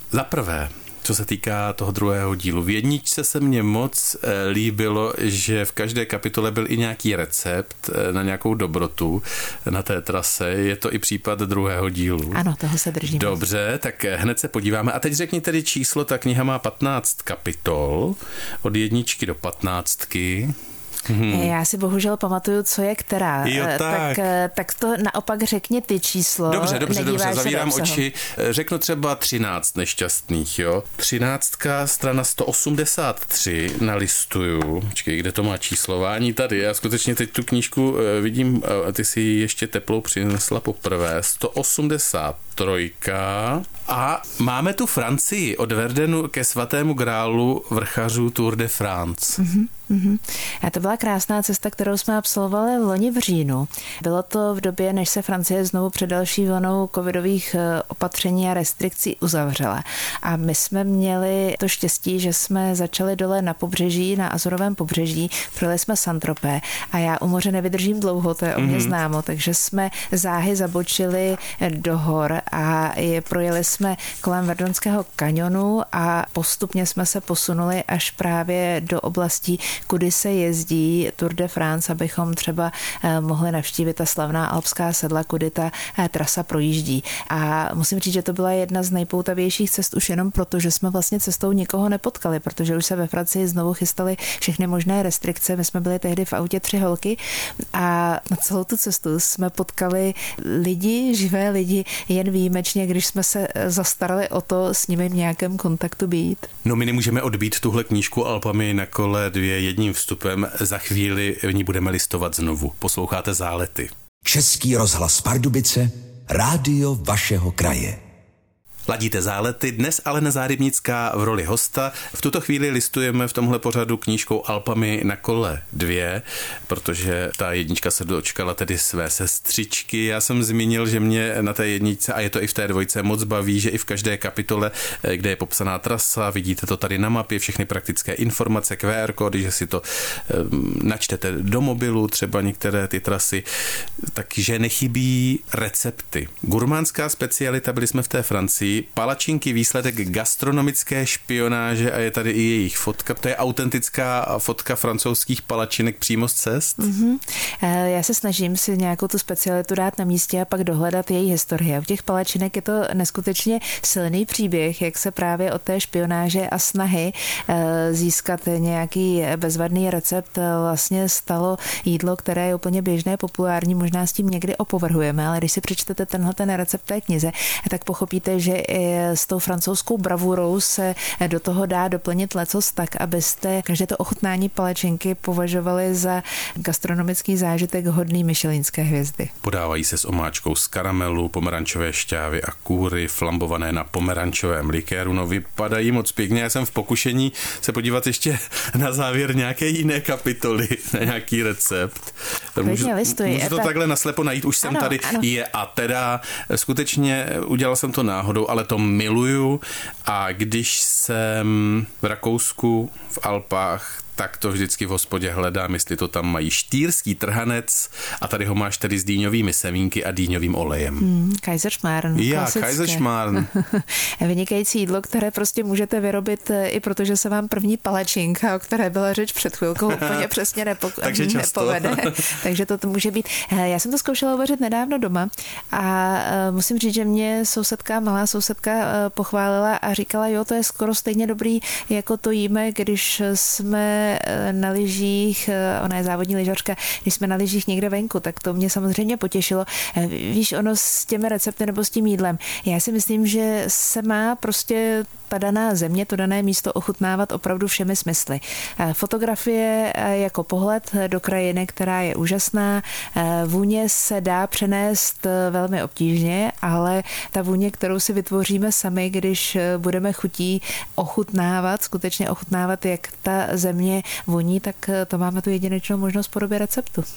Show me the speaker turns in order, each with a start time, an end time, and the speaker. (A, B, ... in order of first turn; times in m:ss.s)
0:00.1-0:12.4 A
0:12.3-0:13.4 B
0:13.0-0:21.5 A
0:21.3-0:28.0 B
0:23.4-0:24.3 A
0:26.5-0:49.4 A
0:49.4-1:37.2 B
1:08.6-1:08.9 A
1:37.7-1:46.5 B
1:46.6-1:53.9 A
1:54.2-1:58.0 C
1:58.9-2:23.4 A
2:24.1-2:36.8 A
2:36.8-3:09.3 B
3:09.4-3:41.1 A
3:22.6-3:23.7 B
3:24.6-3:25.2 B
3:41.0-4:37.0 B
3:42.1-3:43.5 A
3:49.9-3:50.2 A
3:51.0-3:52.3 A